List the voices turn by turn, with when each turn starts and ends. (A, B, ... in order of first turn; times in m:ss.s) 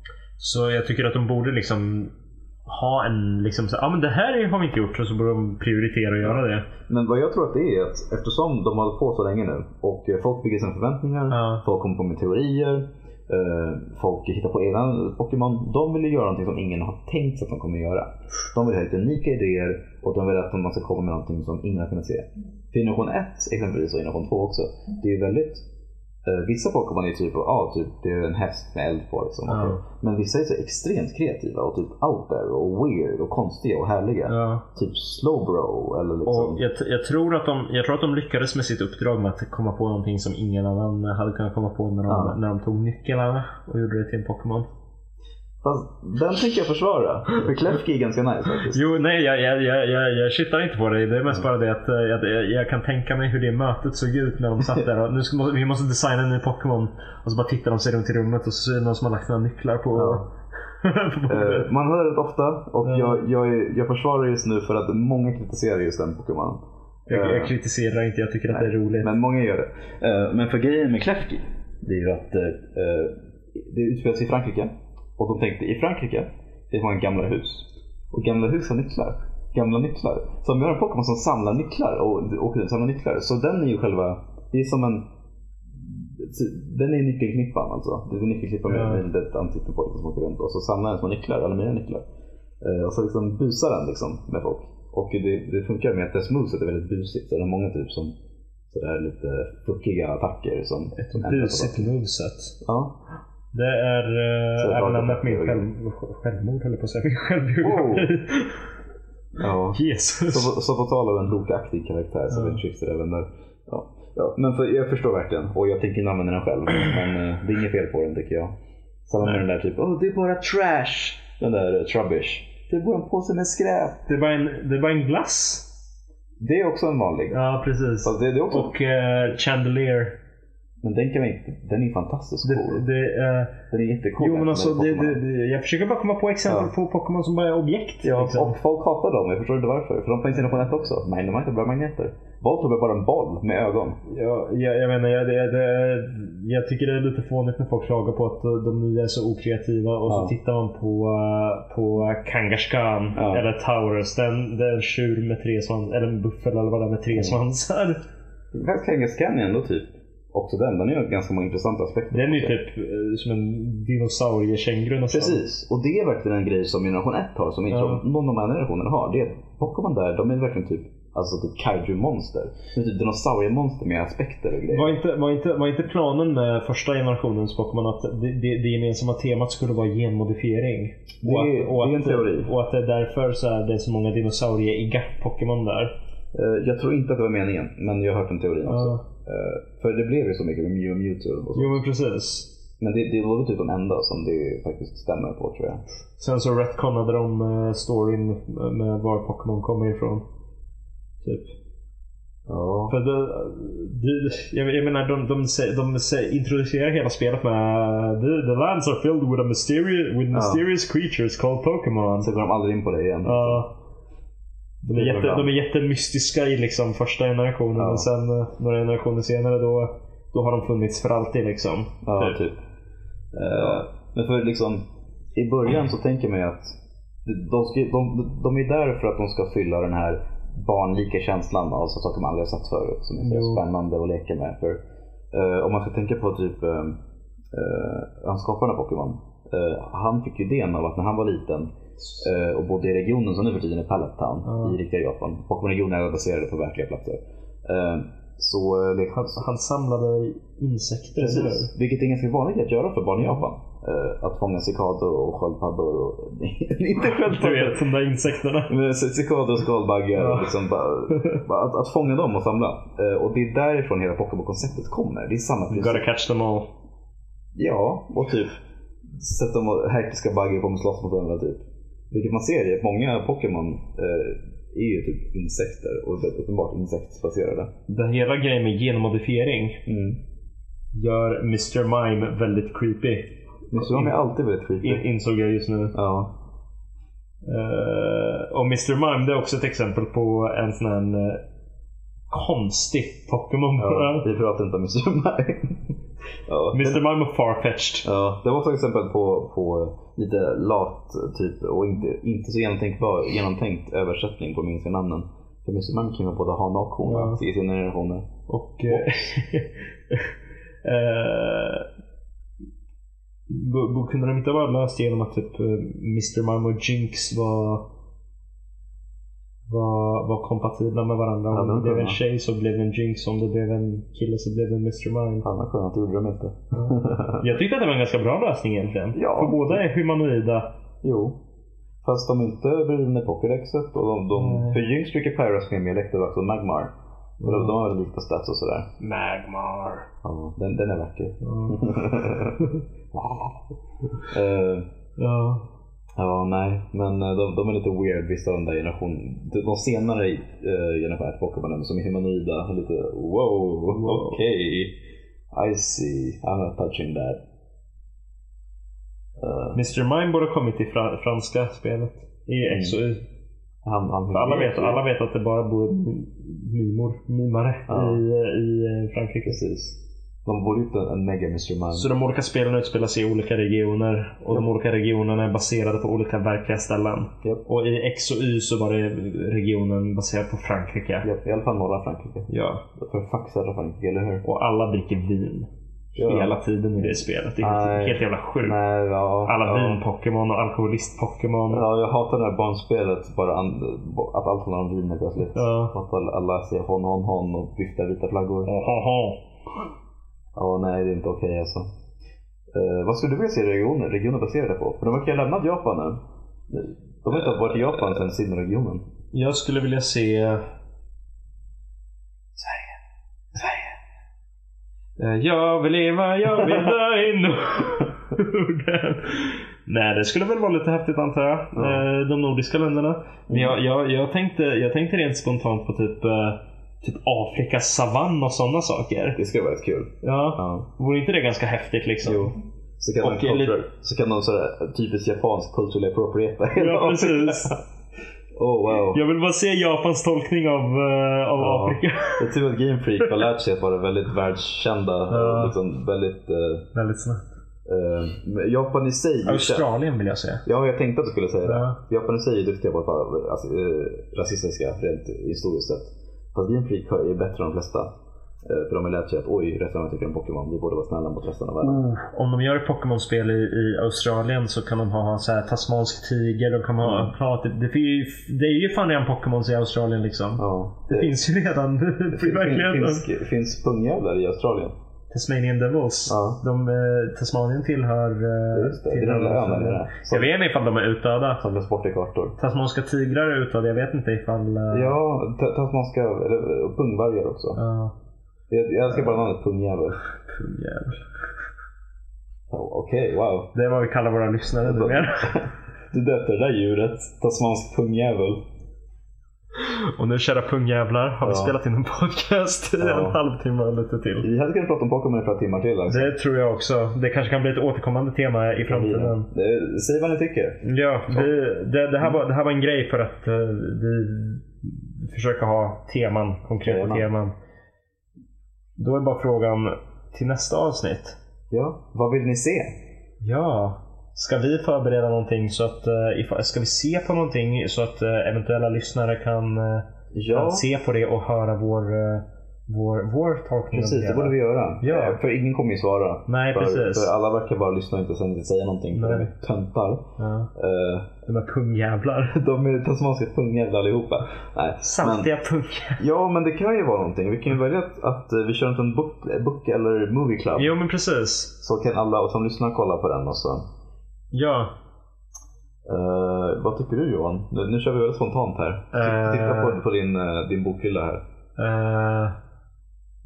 0:00.4-0:02.1 A
0:02.6-0:06.7 A
0:06.2-0:25.6 B
0:11.3-0:11.6 A
0:26.2-0:36.6 B
0:29.5-0:29.8 A
0:34.3-0:34.6 A
0:36.2-0:44.7 A
0:42.1-0:42.4 B
0:45.6-0:48.8 B
0:48.7-1:00.3 A
0:59.9-1:00.2 B
1:00.8-1:01.7 A
1:01.3-1:07.5 B
1:02.8-1:03.2 A
1:07.1-1:09.1 A
1:08.5-1:25.1 B
1:25.7-1:32.0 B
1:28.7-1:29.0 A
1:32.6-1:38.1 B
1:38.7-1:41.9 B
1:41.0-1:42.6 A
1:42.6-1:43.0 B
1:43.5-1:48.7 A
1:44.6-1:45.6 B
1:47.6-1:48.1 B
1:49.4-1:58.5 B
1:49.7-1:50.5 A
1:52.3-1:52.6 A
1:59.1-2:04.0 B
2:04.1-2:05.7 A
2:06.4-2:07.3 B
2:07.3-2:10.2 A
2:08.0-2:08.7 B
2:10.8-2:12.8 B
2:12.4-2:13.6 A
2:13.7-2:15.2 B
2:14.2-2:18.6 A
2:16.5-2:16.7 B
2:18.0-2:24.0 B
2:24.0-2:38.0 A
2:30.1-2:30.3 B
2:33.2-2:33.4 B
2:37.1-2:37.4 B
2:38.5-2:42.6 B
2:42.1-2:45.4 A
2:45.1-2:55.0 B
2:47.7-2:48.0 A
2:54.7-3:05.9 A
3:01.2-3:02.5 B
3:06.3-3:11.8 B
3:08.6-3:09.0 A
3:11.5-3:12.5 A
3:12.8-3:15.8 B
3:16.2-3:20.2 A
3:21.2-3:21.5 A
3:22.5-3:23.0 B
3:22.9-3:32.3 A
3:30.3-3:30.6 B
3:32.2-3:33.6 B
3:33.2-3:33.7 A
3:34.8-3:35.5 B
3:34.9-3:42.4 A
3:37.8-3:38.1 B
3:42.0-3:42.6 B
3:43.3-3:43.9 A
3:43.5-3:54.8 B
3:53.2-3:53.6 A
3:55.3-3:57.0 B
3:57.5-4:09.4 B
4:02.0-4:02.3 A
4:04.4-4:04.8 A
4:09.1-4:11.7 A
4:11.2-4:17.9 B
4:17.0-4:18.7 A
4:18.7-4:26.0 B
4:20.2-4:20.6 A
4:21.1-4:21.4 A
4:25.7-4:26.7 A
4:27.5-4:37.7 B
4:37.9-4:39.8 A
4:39.8-4:40.2 B
4:40.9-4:44.2 A
4:43.7-4:45.0 B
4:44.8-4:45.9 A
4:45.9-4:46.3 B
4:47.4-4:51.4 A
4:52.3-4:54.3 A
4:53.8-4:56.0 B
4:56.5-4:57.0 B
4:56.7-4:58.1 A
4:58.0-5:08.3 B
5:07.0-5:07.4 A
5:08.5-5:11.8 A
5:08.9-5:09.3 B
5:13.5-5:17.8 A
5:19.7-5:25.4 A
5:21.5-5:22.2 B
5:25.4-5:27.4 B
5:26.7-5:30.7 A
5:29.1-5:29.8 B
5:31.0-5:31.4 B
5:32.0-5:38.9 B
5:34.3-5:34.8 A
5:37.4-5:37.8 A
5:39.0-5:40.1 A
5:40.2-5:43.6 B
5:41.4-5:42.0 A
5:44.3-5:44.8 B
5:45.2-5:45.6 A
5:46.2-5:54.9 B
5:53.9-5:54.4 A
5:55.5-5:57.4 B
5:59.4-5:59.8 B
5:59.7-6:03.2 A
6:02.6-6:03.0 B
6:03.8-6:05.0 B
6:04.3-6:09.6 A
6:07.9-6:08.2 B
6:09.4-6:12.1 B
6:11.9-6:21.3 A
6:21.2-6:24.4 B
6:22.5-6:22.8 A
6:24.4-6:28.8 A
6:26.1-6:26.6 B
6:27.6-6:30.0 B
6:29.4-6:31.8 A
6:31.7-6:38.7 B
6:35.5-6:35.9 A
6:38.6-6:39.4 A
6:40.5-6:41.9 B
6:42.7-6:49.0 B
6:47.3-6:48.2 A
6:49.3-6:50.6 A
6:52.6-6:53.0 B
6:53.5-6:54.0 B
6:55.2-7:09.4 A
6:56.5-6:56.9 B
7:01.7-7:02.0 B
7:03.5-7:03.8 B
7:09.4-7:10.8 B
7:10.2-7:12.5 A
7:12.2-7:17.8 B
7:13.2-7:13.8 A
7:16.7-7:17.7 A
7:18.6-7:19.2 B
7:19.1-7:22.5 A
7:21.6-7:26.8 B
7:25.3-7:25.8 A
7:26.9-7:27.5 A
7:27.8-7:29.8 B
7:29.4-7:30.6 A
7:30.6-7:38.1 B
7:31.6-7:32.0 A
7:38.6-7:42.0 B
7:41.8-7:53.2 A
7:47.0-7:47.3 B
7:50.6-7:51.3 B
7:52.3-7:54.9 B
7:55.3-8:01.6 A
7:56.3-7:56.6 B
7:58.7-8:00.5 B
8:01.6-8:02.5 B
8:02.6-8:05.2 A
8:04.9-8:07.8 B
8:07.7-8:08.1 A
8:08.7-8:10.2 B
8:10.5-8:11.2 A
8:12.7-8:13.7 B
8:13.7-8:15.6 A
8:14.8-8:18.6 B
8:19.8-8:24.5 A
8:21.4-8:21.8 B
8:23.0-8:23.4 B
8:24.4-8:26.4 B
8:26.1-8:29.5 A
8:28.8-8:31.5 B
8:30.8-8:37.5 A
8:36.8-8:37.2 B
8:39.0-8:41.4 A
8:41.7-8:42.9 B
8:43.4-8:55.4 A
8:50.3-8:50.8 B
8:53.9-9:00.2 B
8:56.5-8:57.3 A
8:59.1-8:59.5 A
9:00.4-9:00.7 A
9:00.7-9:01.3 B
9:01.4-9:02.6 A
9:02.5-9:05.5 B
9:05.0-9:06.2 A
9:06.2-9:10.9 B
9:10.8-9:11.7 A
9:11.8-9:13.8 B
9:14.5-9:14.9 A
9:16.0-9:21.4 B
9:19.1-9:20.0 A
9:21.8-9:22.6 A